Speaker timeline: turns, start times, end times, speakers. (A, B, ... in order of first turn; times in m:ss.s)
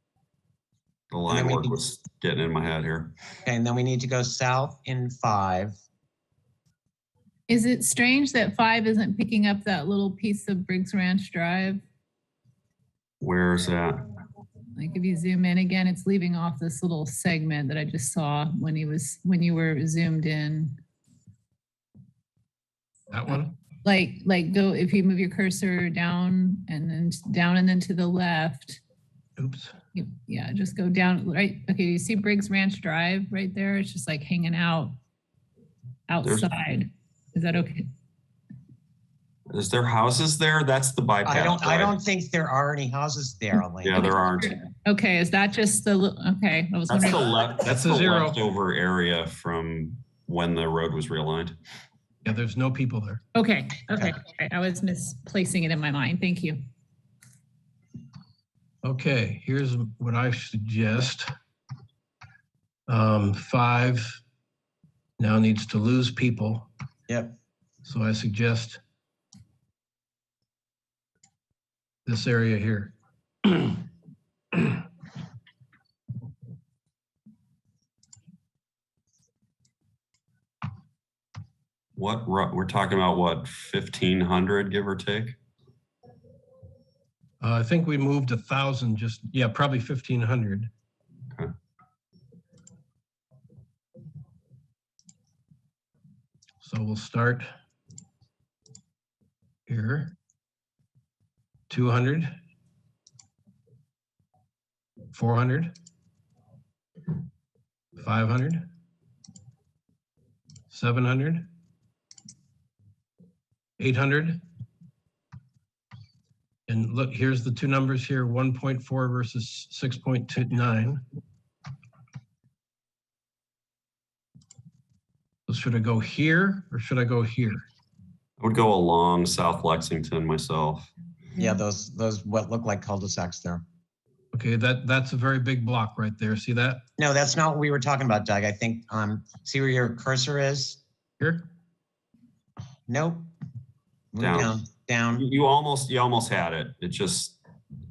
0:01.1-0:03.1 A
0:01.3-0:01.8 B
0:03.4-0:05.8 B
0:07.5-0:11.8 C
0:13.2-0:14.0 A
0:14.8-0:20.7 C
0:23.1-0:23.6 D
0:23.3-0:28.8 C
0:29.4-0:29.8 D
0:29.9-0:34.9 C
0:36.1-0:37.9 C
0:36.2-0:36.5 A
0:39.5-0:42.0 A
0:41.2-0:44.1 B
0:43.8-0:44.6 A
0:44.0-0:47.3 C
0:46.9-0:51.6 A
0:47.6-0:48.4 D
0:52.2-0:53.2 D
0:53.3-0:56.6 C
0:58.8-1:01.3 D
1:02.9-1:04.2 D
1:05.2-1:06.7 D
1:07.1-1:07.3 B
1:07.8-1:08.8 D
1:12.0-1:13.8 D
1:22.0-1:25.4 A
1:27.4-1:30.7 D
1:36.6-1:37.5 D
1:39.7-1:40.1 D
1:41.7-1:42.4 D
1:45.1-1:45.8 D
1:48.0-1:48.7 D
1:50.7-1:51.5 D
1:53.8-1:54.4 D
1:56.7-2:01.0 D
2:05.5-2:07.6 D
2:08.4-2:10.9 A
2:11.4-2:13.6 B
2:14.3-2:16.8 D
2:17.0-2:20.8 B
2:21.2-2:21.4 D
2:22.9-2:23.3 B
2:24.1-2:25.2 B
2:24.2-2:24.6 A
2:25.2-2:27.4 A